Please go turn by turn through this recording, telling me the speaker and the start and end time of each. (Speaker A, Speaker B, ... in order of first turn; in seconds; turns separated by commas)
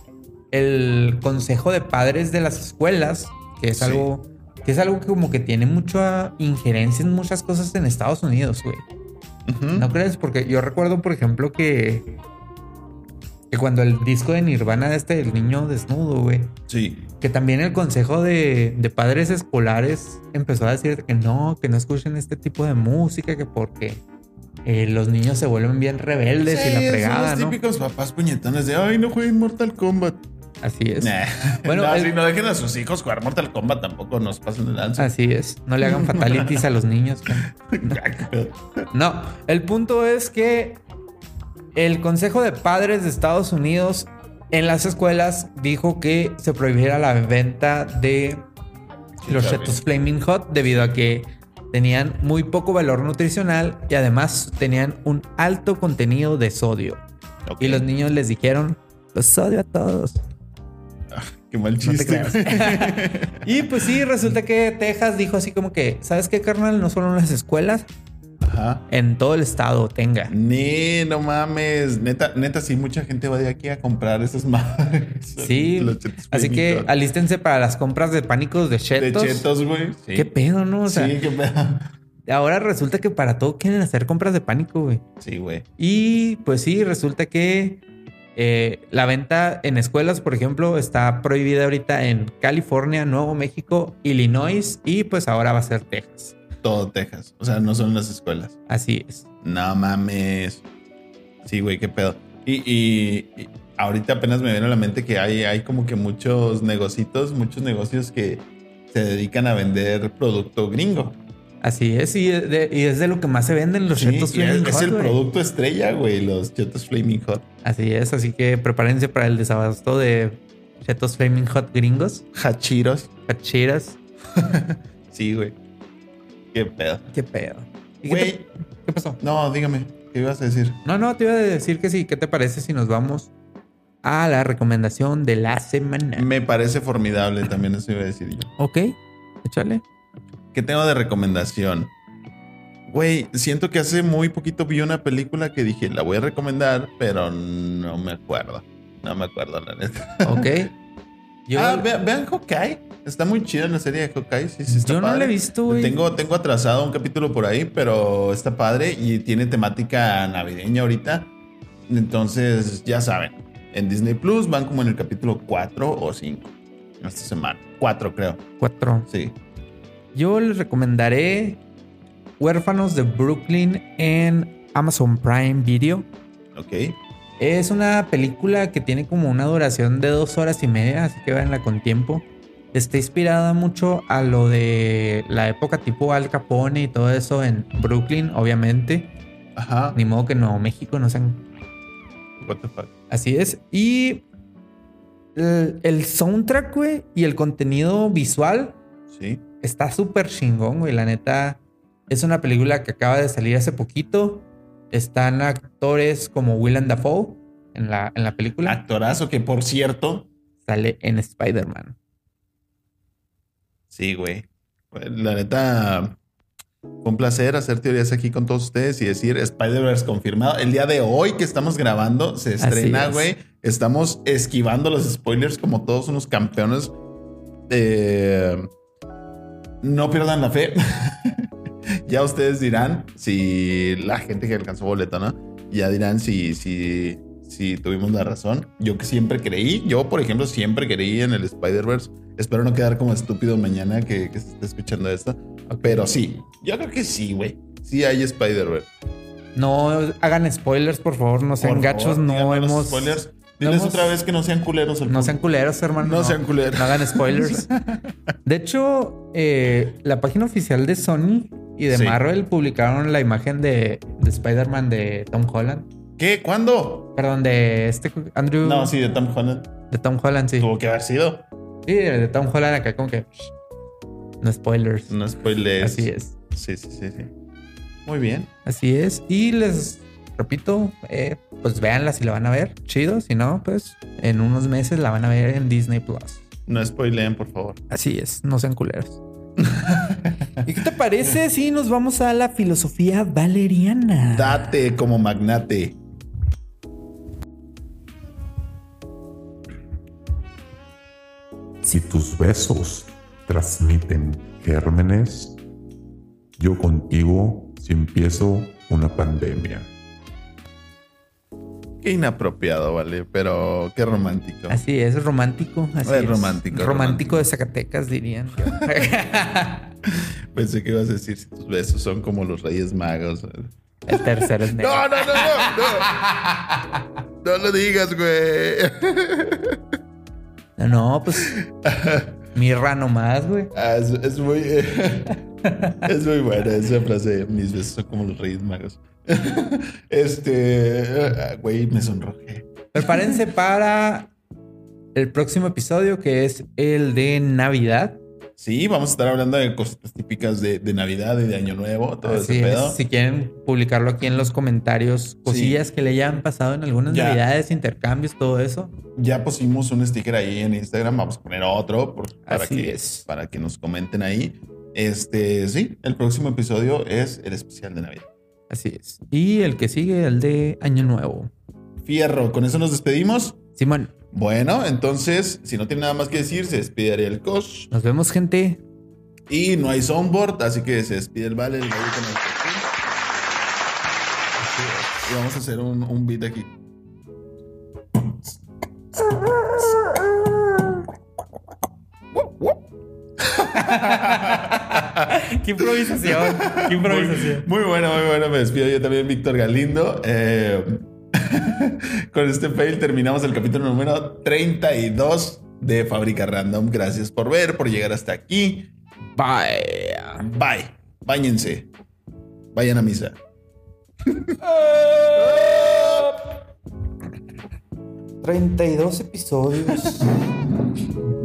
Speaker A: 0.5-8.8, Speaker B: 3.8-4.1, Speaker B: 9.5-9.9, Speaker A: 9.8-12.2, Speaker A: 13.5-16.6, Speaker B: 16.7-17.1, Speaker A: 17.2-24.0, Speaker A: 24.6-27.6, Speaker B: 26.4-30.2, Speaker A: 30.6-32.1, Speaker B: 31.0-35.1, Speaker A: 35.0-38.0, Speaker B: 35.8-36.6, Speaker B: 37.5-38.9, Speaker A: 38.9-40.8, Speaker A: 41.8-48.5, Speaker B: 49.2-49.8, Speaker A: 49.3-57.0, Speaker B: 57.5-57.9, Speaker A: 57.6-60.2, Speaker B: 61.1-64.0, Speaker A: 61.8-67.9, Speaker B: 68.4-68.9, Speaker A: 68.9-70.3, Speaker B: 70.3-76.9, Speaker A: 75.4-79.5, Speaker B: 79.0-80.3, Speaker A: 80.2-81.2, Speaker B: 80.8-81.9, Speaker A: 82.3-85.0, Speaker B: 85.2-85.7, Speaker A: 85.8-87.8, Speaker A: 88.4-96.4, Speaker B: 96.6-98.6, Speaker A: 98.7-99.3, Speaker B: 99.4-100.6, Speaker B: 101.4-111.2, Speaker A: 111.6-115.2, Speaker B: 113.9-117.5, Speaker A: 117.6-122.3, Speaker B: 122.3-123.1, Speaker A: 123.3-124.0, Speaker B: 124.3-125.6, Speaker B: 126.5-127.0, Speaker A: 127.1-129.2, Speaker B: 128.1-128.5, Speaker B: 129.2-130.8, Speaker A: 130.8-133.3, Speaker A: 134.0-136.3, Speaker B: 136.2-138.5, Speaker A: 138.6-139.8, Speaker B: 140.5-141.9, Speaker B: 142.9-150.5, Speaker A: 150.2-150.7, Speaker A: 151.5-151.9, Speaker B: 151.5-161.3, Speaker A: 154.7-156.0, Speaker B: 161.9-168.4, Speaker A: 168.6-169.1, Speaker B: 169.1-169.4, Speaker A: 170.1-171.6, Speaker A: 172.4-176.1, Speaker B: 176.6-177.0, Speaker A: 177.4-189.1, Speaker B: 189.6-190.0, Speaker A: 189.9-191.4, Speaker B: 192.4-192.9, Speaker A: 193.1-194.2, Speaker A: 195.3-198.8, Speaker B: 199.1-199.4, Speaker A: 199.6-208.8, Speaker B: 208.7-210.3, Speaker A: 210.6-212.0, Speaker B: 213.9-216.2, Speaker B: 217.0-226.9, Speaker A: 222.6-223.3, Speaker B: 227.7-228.7, Speaker B: 229.8-231.5, Speaker B: 232.0-248.9, Speaker A: 245.7-246.1, Speaker A: 249.6-254.2, Speaker B: 251.6-255.4, Speaker A: 255.1-257.7, Speaker B: 256.0-258.1, Speaker A: 258.4-265.9, Speaker B: 261.9-262.2, Speaker B: 266.2-267.1, Speaker A: 267.2-268.9, Speaker B: 268.6-269.7, Speaker A: 269.9-270.7, Speaker B: 270.6-271.4, Speaker A: 271.9-273.5, Speaker A: 274.4-275.1, Speaker B: 275.1-277.3, Speaker A: 275.8-276.4, Speaker B: 278.1-278.5, Speaker A: 278.6-286.4, Speaker B: 286.7-287.8, Speaker A: 287.9-289.2, Speaker B: 289.6-290.5, Speaker A: 290.6-294.7, Speaker B: 294.3-296.0, Speaker C: 301.8-305.6, Speaker C: 306.6-309.9, Speaker B: 312.0-314.8, Speaker A: 314.7-319.9, Speaker B: 316.0-317.5, Speaker B: 320.1-326.2, Speaker A: 324.1-327.1, Speaker B: 327.4-329.8, Speaker A: 330.8-331.5, Speaker B: 331.4-332.4, Speaker A: 332.5-333.7, Speaker B: 333.7-335.4, Speaker A: 335.6-336.0, Speaker B: 336.0-343.4, Speaker A: 342.9-344.3, Speaker A: 345.1-348.2, Speaker B: 348.6-353.0, Speaker A: 352.2-358.9, Speaker B: 355.5-355.8, Speaker B: 357.1-357.4, Speaker B: 359.2-368.3, Speaker A: 362.5-363.3, Speaker A: 368.7-371.5, Speaker B: 372.0-373.6, Speaker A: 373.8-374.1, Speaker B: 374.3-377.9, Speaker A: 377.9-378.8, Speaker B: 379.5-382.9, Speaker B: 384.6-386.7, Speaker B: 388.2-388.5, Speaker B: 389.3-390.2, Speaker B: 392.3-392.8, Speaker B: 393.4-395.3, Speaker A: 393.7-397.7, Speaker B: 395.8-408.9, Speaker A: 409.4-410.4, Speaker B: 410.4-411.9, Speaker B: 412.7-413.4, Speaker B: 414.3-414.6, Speaker A: 415.0-416.3, Speaker B: 415.3-416.3, Speaker A: 418.4-420.3